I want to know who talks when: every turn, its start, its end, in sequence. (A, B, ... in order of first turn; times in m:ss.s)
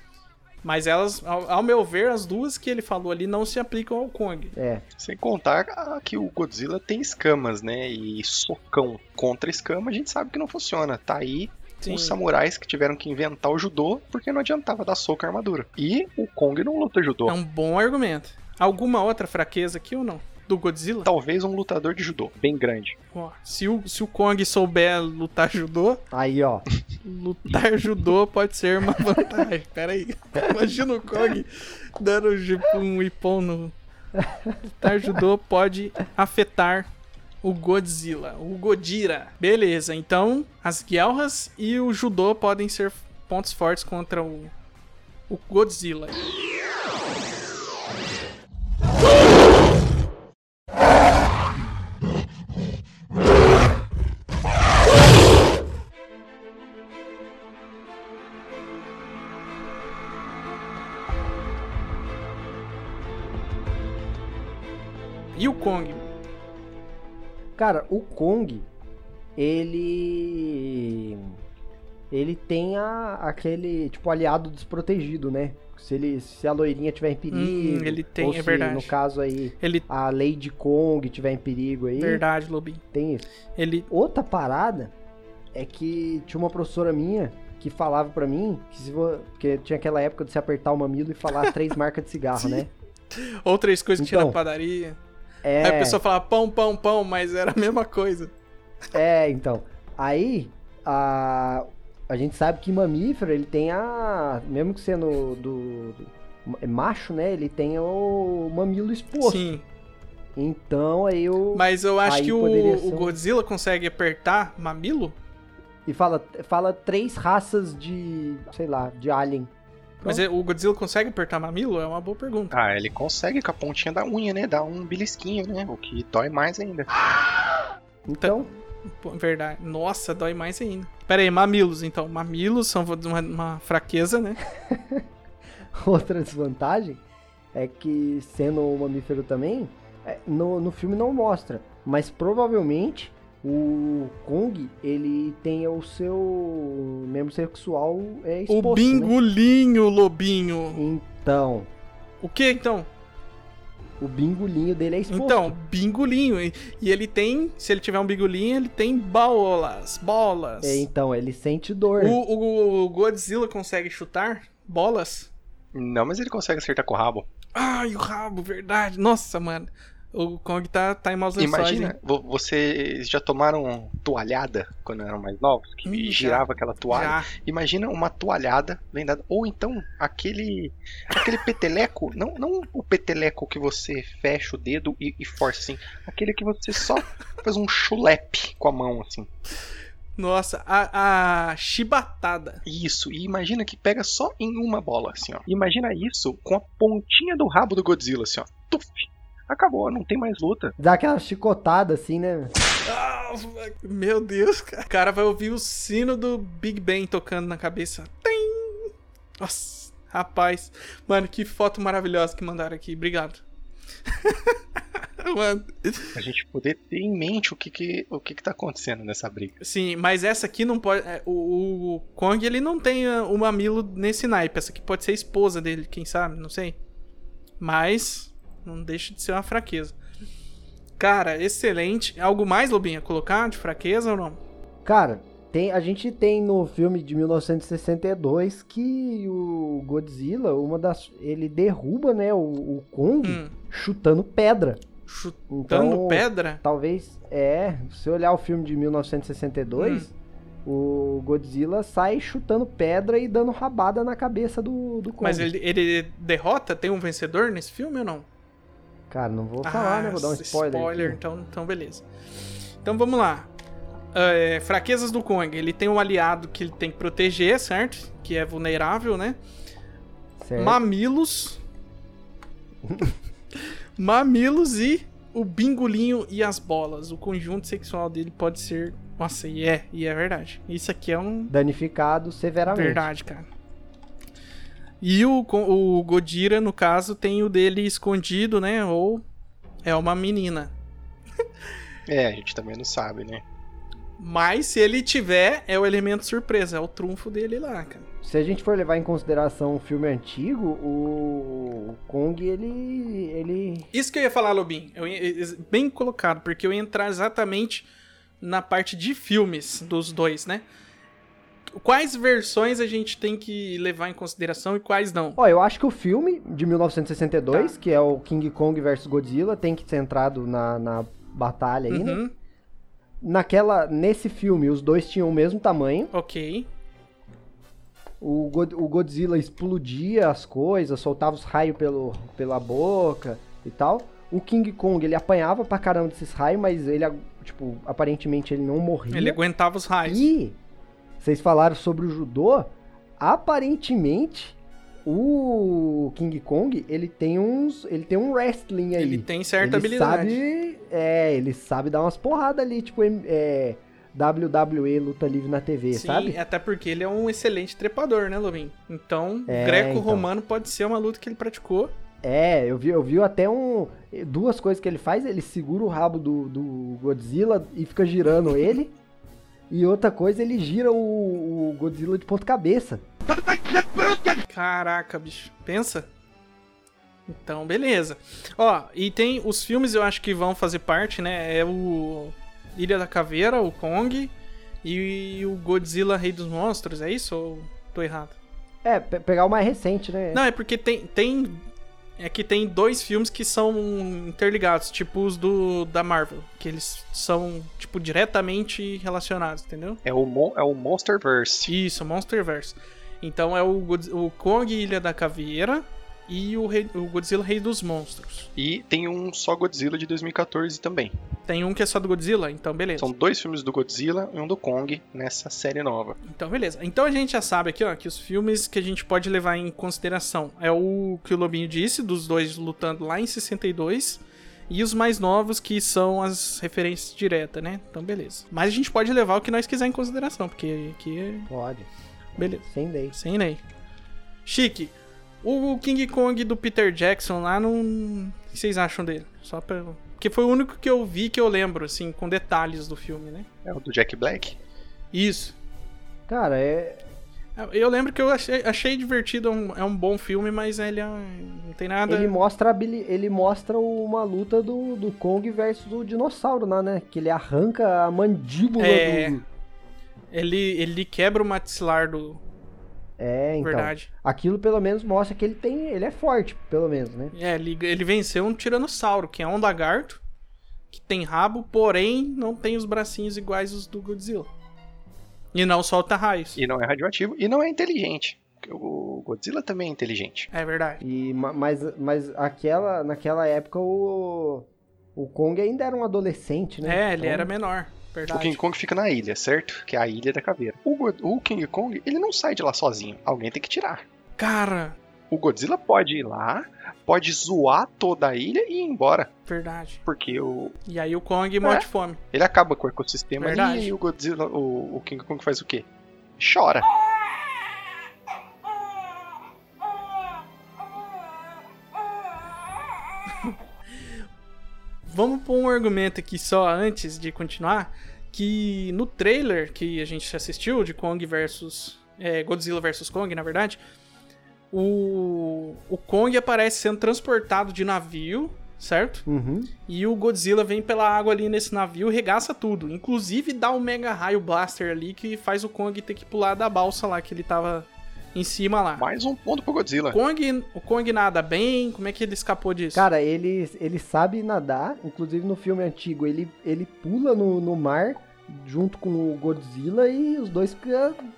0:00.6-0:04.5 A
0:04.5-0:04.8 B
0:05.0-0:17.4 C
0:11.8-0:12.2 A
0:17.3-0:21.1 A
0:21.0-0:23.0 C
0:23.1-0:26.0 A
0:26.1-0:26.6 B
0:27.0-0:33.7 A
0:34.2-0:34.6 B
0:34.8-0:36.9 A
0:37.4-0:44.5 A
0:45.3-0:46.2 A
1:05.4-1:06.1 A
1:07.6-1:08.7 B
1:09.4-1:11.3 B
1:12.1-1:22.2 B
1:17.3-1:18.9 A
1:19.6-1:19.8 A
1:22.0-1:22.8 A
1:22.9-1:23.3 B
1:23.6-1:23.9 A
1:23.9-1:24.9 B
1:25.5-1:32.7 B
1:32.4-1:35.0 A
1:34.0-1:34.4 B
1:35.4-1:36.0 B
1:35.6-1:38.3 A
1:38.9-1:49.5 B
1:49.2-1:49.6 A
1:50.4-1:53.2 B
1:51.5-1:55.2 A
1:55.8-1:59.5 B
2:00.0-2:02.5 A
2:02.5-2:06.9 C
2:08.0-2:08.5 B
2:08.2-2:14.4 A
2:14.5-2:15.0 B
2:15.7-2:17.0 B
2:17.5-2:29.1 B
2:28.5-2:30.8 A
2:30.7-2:31.7 B
2:32.2-2:32.9 A
2:34.0-2:35.5 B
2:35.1-2:40.8 A
2:40.6-2:42.2 B
2:42.0-2:45.3 A
2:45.7-2:47.3 C
2:47.5-2:51.9 A
2:51.4-3:09.3 C
2:55.8-2:57.3 A
3:10.2-3:12.6 A
3:12.6-3:20.7 C
3:20.8-3:22.5 B
3:22.8-3:33.4 A
3:34.1-3:36.2 A
3:36.1-3:39.5 C
3:39.6-3:46.8 A
3:47.6-3:50.0 A
3:51.0-3:54.4 A
3:54.8-4:04.8 B
4:03.2-4:03.5 A
4:05.1-4:06.6 A
4:05.5-4:10.1 B
4:09.8-4:10.1 A
4:10.6-4:15.5 B
4:15.2-4:18.2 A
4:19.1-4:21.2 B
4:19.6-4:22.0 A
4:22.8-4:23.5 A
4:24.1-4:29.4 A
4:30.4-4:30.8 B
4:30.6-4:31.6 A
4:32.8-4:33.1 B
4:34.0-4:41.5 A
4:41.5-4:43.1 B
4:42.7-4:43.5 A
4:45.0-4:49.2 A
4:49.8-4:50.7 A
4:52.1-4:53.4 C
4:54.2-4:58.0 A
4:58.2-5:03.9 B
5:03.9-5:07.9 A
5:08.4-5:10.6 A
5:11.8-5:15.4 A
5:15.4-5:22.2 B
5:21.9-5:22.3 A
5:23.2-5:26.1 B
5:26.1-5:26.7 A
5:28.2-5:39.4 B
5:39.1-5:40.2 A
5:40.0-5:40.6 B
5:41.2-5:56.4 B
5:49.0-5:50.4 A
5:55.9-6:01.9 A
5:59.5-6:00.3 B
6:02.2-6:08.9 B
6:09.7-6:13.0 B
6:13.4-6:16.1 A
6:17.3-6:28.4 A
6:28.8-6:30.4 B
6:30.3-6:31.6 A
6:32.2-6:40.0 A
6:40.0-6:41.7 C
6:41.7-6:48.5 A
6:48.6-6:51.1 C
6:51.5-6:53.1 A
6:53.0-6:56.2 C
6:56.3-7:11.5 A
7:11.5-7:11.9 B
7:12.4-7:13.6 A
7:12.4-7:13.2 B
7:14.4-7:23.5 A
7:23.6-7:24.6 C
7:25.1-7:25.6 A
7:26.3-7:27.0 B
7:27.6-7:32.3 A
7:32.1-7:39.4 B
7:38.8-7:39.4 A
7:40.3-7:42.4 A
7:43.2-7:47.3 B
7:43.6-7:44.1 A
7:47.3-7:50.2 A
7:50.9-7:54.5 A
7:55.5-7:56.6 A
7:56.6-8:00.5 C
8:00.5-8:01.0 A
8:01.0-8:07.5 B
8:06.8-8:08.6 A
8:08.3-8:14.0 C
8:14.4-8:15.0 A
8:15.3-8:19.3 C
8:19.5-8:20.0 A
8:20.0-8:20.8 C
8:20.8-8:22.2 A
8:21.6-8:25.8 C
8:23.4-8:23.9 A
8:26.4-8:26.9 C
8:35.0-8:43.8 A
8:44.7-8:49.2 A
8:49.2-8:49.7 B
8:49.9-8:59.0 A
8:59.0-9:00.2 C
9:00.1-9:03.1 A
9:02.9-9:11.2 B